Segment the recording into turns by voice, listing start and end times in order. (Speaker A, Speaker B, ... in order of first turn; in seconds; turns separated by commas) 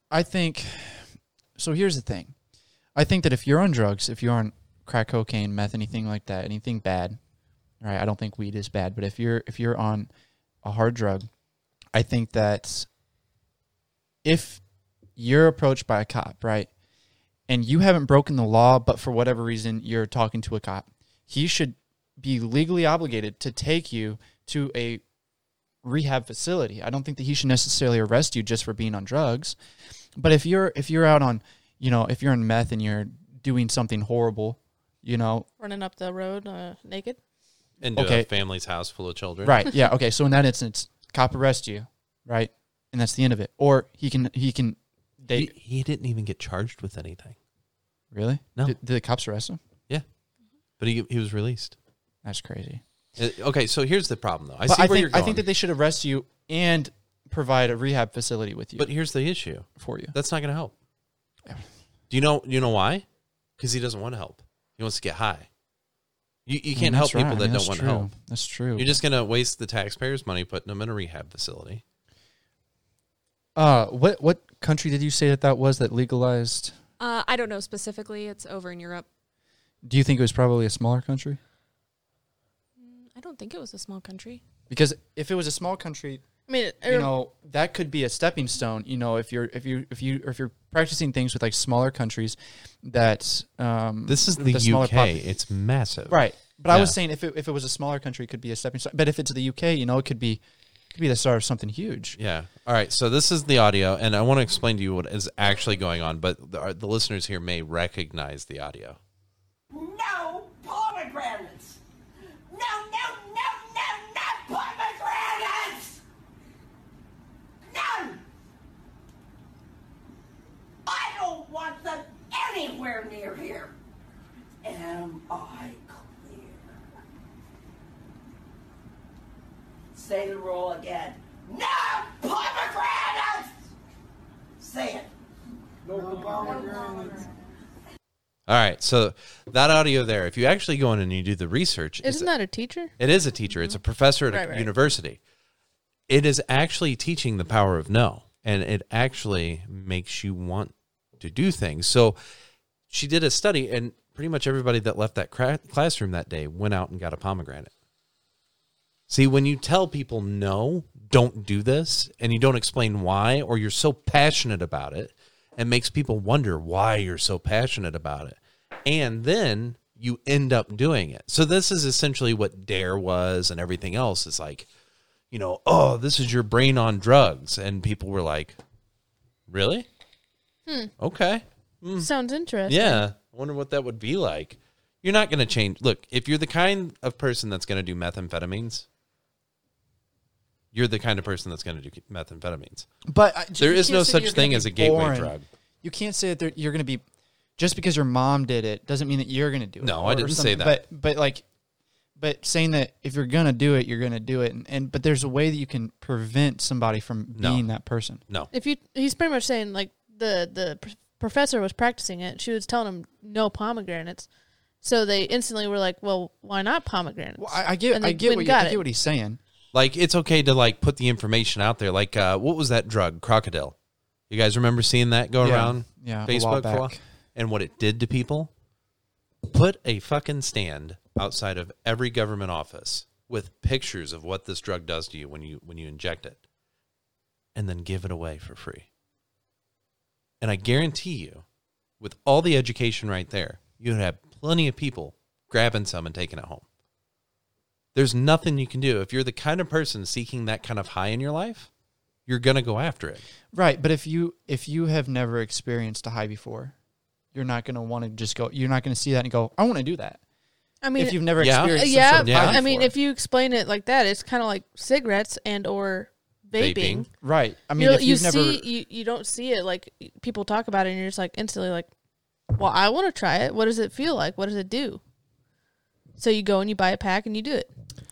Speaker A: 0.1-2.3, Speaker A: 2.9-7.2, Speaker A: 7.8-10.1, Speaker A: 10.6-11.3, Speaker A: 11.9-12.9, Speaker A: 14.2-14.6, Speaker A: 15.2-16.7, Speaker A: 17.5-25.0, Speaker A: 25.8-29.6, Speaker A: 30.1-35.5, Speaker B: 35.6-37.2, Speaker C: 37.8-39.6, Speaker A: 38.0-38.3, Speaker A: 39.4-45.5, Speaker C: 45.3-47.4, Speaker A: 48.1-49.6, Speaker C: 50.8-51.8, Speaker A: 52.2-52.8, Speaker C: 53.2-55.4, Speaker A: 54.6-58.9, Speaker C: 58.8-60.7, Speaker A: 59.8-60.1, Speaker C: 62.1-63.0, Speaker C: 63.6-65.5, Speaker C: 66.5-68.1, Speaker A: 66.7-69.0, Speaker C: 68.8-71.8, Speaker A: 73.5-76.7, Speaker D: 77.0-79.0, Speaker A: 79.8-81.4, Speaker D: 82.8-84.4, Speaker A: 84.7-86.2, Speaker B: 86.5-87.1, Speaker A: 86.8-95.2, Speaker C: 94.1-96.2, Speaker A: 96.1-100.4, Speaker C: 96.7-97.0, Speaker A: 100.9-102.2, Speaker C: 102.2-109.0, Speaker E: 109.7-111.8, Speaker E: 112.5-116.0, Speaker E: 117.7-118.2, Speaker E: 120.8-123.7, Speaker E: 124.6-126.8, Speaker E: 129.9-133.6, Speaker E: 134.6-135.1, Speaker E: 135.9-137.3, Speaker C: 138.5-142.3, Speaker B: 142.0-142.9, Speaker C: 143.0-145.2, Speaker B: 144.3-144.7, Speaker C: 146.1-152.2, Speaker C: 152.9-157.7, Speaker C: 159.1-174.7, Speaker C: 175.3-178.6, Speaker C: 179.5-179.9, Speaker B: 180.7-180.9, Speaker C: 181.0-182.1, Speaker B: 182.0-183.0, Speaker C: 182.7-188.8, Speaker C: 190.7-192.9, Speaker A: 193.1-197.0, Speaker C: 193.6-195.4, Speaker A: 197.6-201.4, Speaker C: 199.8-200.8, Speaker A: 202.2-208.2, Speaker C: 207.3-207.6, Speaker B: 208.5-214.3, Speaker B: 214.8-218.8, Speaker A: 217.4-219.4, Speaker C: 219.7-223.8, Speaker C: 224.3-228.5, Speaker A: 225.4-227.0, Speaker C: 229.4-236.4, Speaker C: 237.5-238.9, Speaker C: 240.4-241.4, Speaker C: 242.0-246.6, Speaker C: 247.9-251.7, Speaker C: 252.3-253.2, Speaker A: 253.5-256.7, Speaker A: 257.3-260.2, Speaker B: 260.8-267.1, Speaker A: 260.9-262.9, Speaker C: 261.4-262.6, Speaker C: 266.6-267.1, Speaker A: 267.2-268.6, Speaker B: 267.8-271.9, Speaker B: 272.5-275.0, Speaker B: 276.2-277.7